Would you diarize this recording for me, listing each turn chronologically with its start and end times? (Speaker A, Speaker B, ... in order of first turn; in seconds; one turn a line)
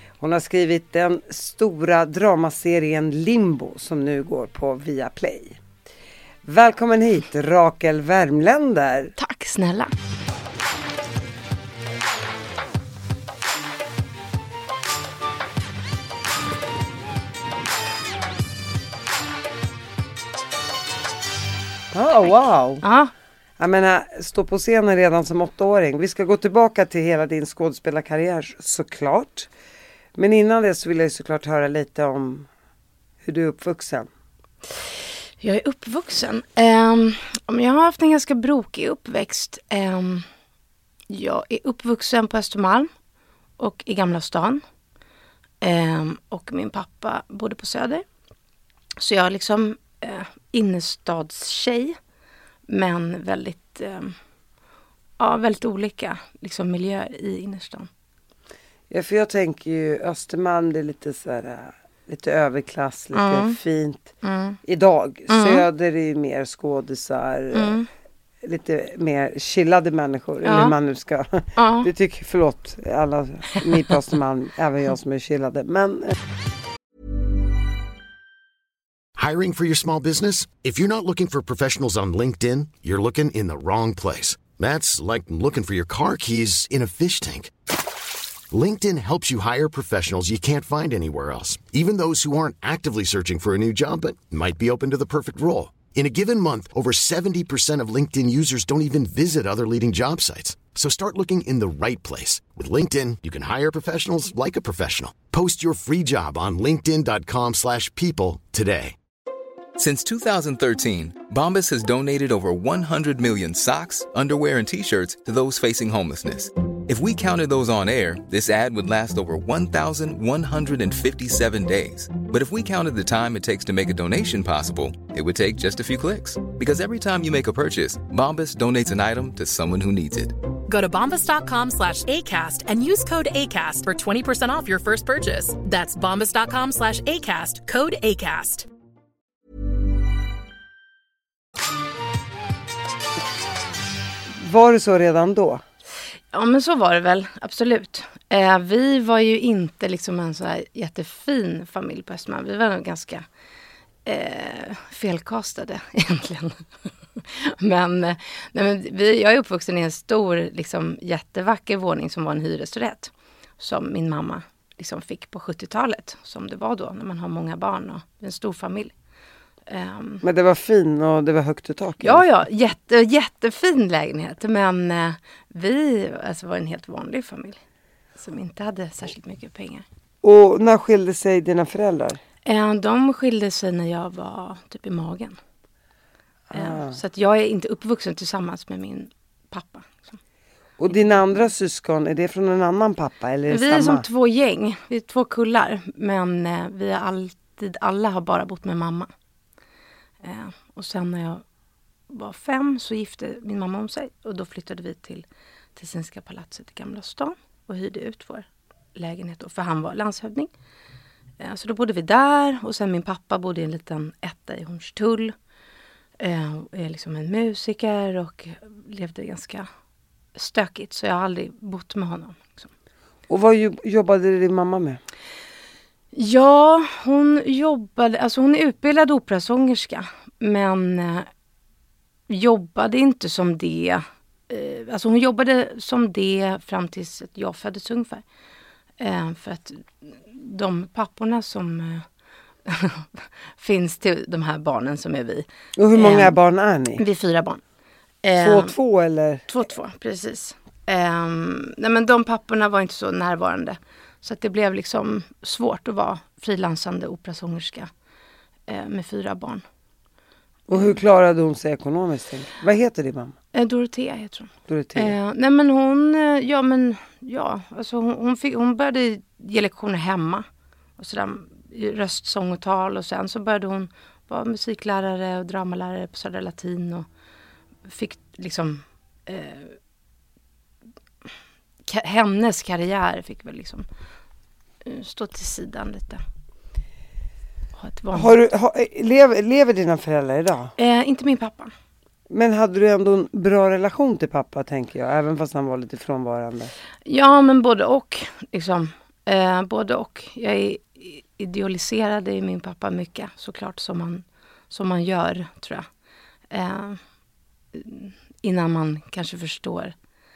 Speaker A: 0.2-5.6
Speaker A: 6.4-9.1
Speaker B: 9.2-9.9
Speaker A: 21.9-22.8
Speaker B: 22.8-23.1
Speaker A: 23.6-29.5
Speaker A: 30.1-32.5
Speaker A: 33.2-34.1
Speaker B: 35.4-40.3
Speaker B: 41.1-42.9
Speaker B: 43.6-44.6
Speaker B: 45.6-48.0
Speaker B: 49.0-52.0
Speaker B: 52.7-54.2
Speaker B: 55.2-57.9
Speaker A: 58.9-64.1
Speaker B: 63.1-63.6
Speaker B: 64.2-64.6
Speaker A: 64.6-67.8
Speaker B: 65.3-65.6
Speaker B: 67.5-67.9
Speaker A: 68.4-76.2
Speaker B: 70.4-70.8
Speaker B: 71.6-71.9
Speaker C: 79.2-87.5
Speaker C: 88.5-109.0
Speaker D: 109.8-130.4
Speaker E: 130.7-138.7
Speaker A: 144.3-145.6
Speaker B: 146.3-153.3
Speaker B: 154.1-168.9
Speaker B: 169.7-170.2
Speaker A: 170.2-172.2
Speaker B: 172.0-177.6
Speaker B: 178.2-179.8
Speaker A: 180.2-182.2
Speaker B: 182.5-185.4
Speaker A: 186.5-187.0
Speaker B: 186.5-190.2
Speaker A: 190.8-194.1
Speaker B: 190.9-191.3
Speaker B: 193.5-199.1
Speaker B: 200.2-201.4
Speaker B: 202.1-205.2
Speaker B: 205.8-210.5
Speaker B: 211.4-215.3
Speaker B: 216.2-219.7
Speaker B: 220.3-222.7
Speaker A: 223.3-225.0
Speaker B: 226.1-231.3
Speaker B: 232.3-238.2
Speaker B: 239.0-242.1
Speaker B: 242.7-246.4
Speaker A: 245.8-247.0
Speaker B: 247.0-247.6
Speaker B: 248.2-248.8
Speaker A: 248.4-249.4
Speaker B: 249.5-257.9
Speaker B: 258.7-259.6
Speaker A: 260.7-263.4
Speaker B: 263.5-270.5
Speaker A: 264.7-265.2
Speaker B: 271.0-277.1
Speaker B: 277.9-279.8
Speaker B: 281.9-283.9
Speaker B: 284.8-286.2
Speaker B: 287.8-288.4
Speaker A: 288.1-290.7
Speaker B: 290.8-291.7
Speaker A: 292.3-296.7
Speaker B: 297.1-305.9
Speaker B: 306.5-307.0
Speaker B: 307.7-309.9